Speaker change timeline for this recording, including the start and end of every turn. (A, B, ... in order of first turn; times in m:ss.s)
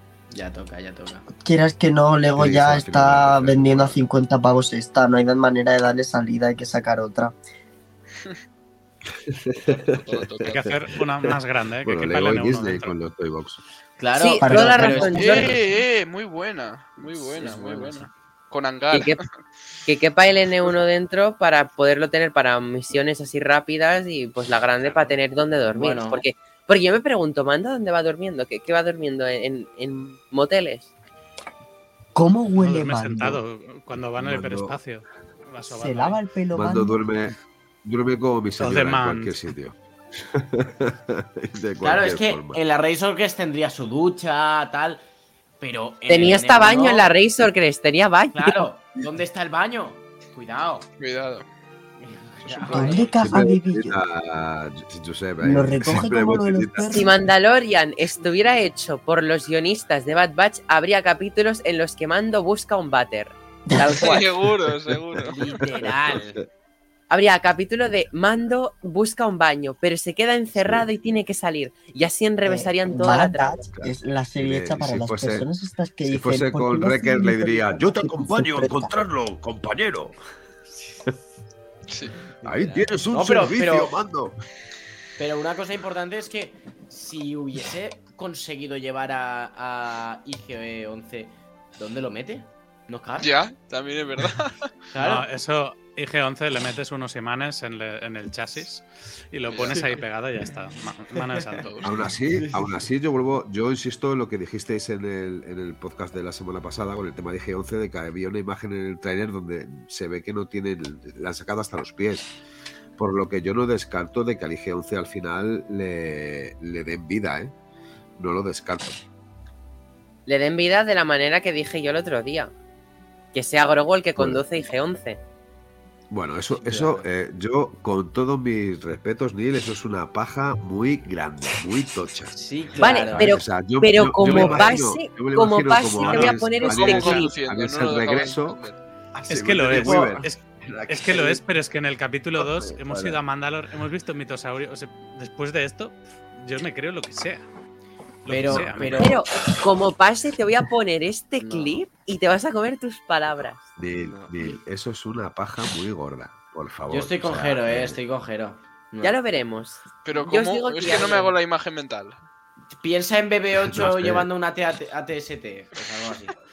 0:00.3-0:01.3 A
0:01.4-0:07.3 B
0:02.4-0:04.0 C
0:09.3-0:13.6 C
0:09.6-0:10.7 D
0:10.4-0:13.0 E
0:14.0-0:15.6 A
0:14.1-0:15.5 F
0:14.4-0:15.6 B
0:15.1-0:19.2 D
0:17.3-0:18.1 A
0:18.9-0:19.2 F
0:19.8-0:30.9 F
0:25.8-0:26.2 A
0:32.1-0:33.4 B
0:32.6-0:36.2 E
0:34.2-0:34.8 C
0:35.7-0:37.0 B
0:36.5-0:42.6 C
0:38.6-0:39.3 E
0:41.8-0:45.0 A
0:45.6-0:47.1 A
0:46.1-0:48.7 F
0:48.3-0:50.8 A
0:51.0-0:51.5 D
0:52.0-0:53.5 A
0:52.4-0:53.1 D
0:52.7-0:54.0 B
0:53.2-0:56.9 C
0:55.4-0:57.1 B
0:56.9-1:04.2 F
1:03.7-1:04.2 B
1:03.9-1:05.4 D
1:05.2-1:06.4 A
1:07.1-1:13.7 F
1:10.6-1:10.8 C
1:12.4-1:19.0 B
1:13.8-1:15.5 C
1:16.0-1:20.2 C
1:20.7-1:21.1 A
1:21.9-1:22.2 D
1:22.2-1:24.0 A
1:22.4-1:24.4 C
1:25.2-1:33.3 A
1:33.2-1:34.7 D
1:34.9-1:35.3 A
1:35.0-1:41.7 E
1:39.5-1:39.8 D
1:39.5-1:42.8 A
1:41.6-1:41.9 D
1:41.8-1:52.3 C
1:53.0-1:57.5 C
1:58.2-1:59.0 C
2:00.3-2:02.5 F
2:03.3-2:05.2 F
2:04.2-2:04.4 C
2:06.1-2:12.4 C
2:06.6-2:07.0 A
2:12.3-2:13.4 A
2:12.8-2:17.3 F
2:13.1-2:21.4 C
2:14.3-2:14.7 A
2:16.0-2:16.4 E
2:16.5-2:18.8 D
2:19.3-2:27.4 E
2:19.8-2:20.2 A
2:22.4-2:23.2 C
2:28.2-2:29.2 E
2:28.2-2:29.2 A
2:28.5-2:28.9 C
2:29.0-2:33.6 F
2:31.5-2:31.8 D
2:33.8-2:38.0 C
2:34.0-2:34.3 D
2:36.9-2:39.2 A
2:39.0-2:41.3 F
2:40.0-2:42.2 D
2:42.7-2:46.3 A
2:43.6-2:44.3 C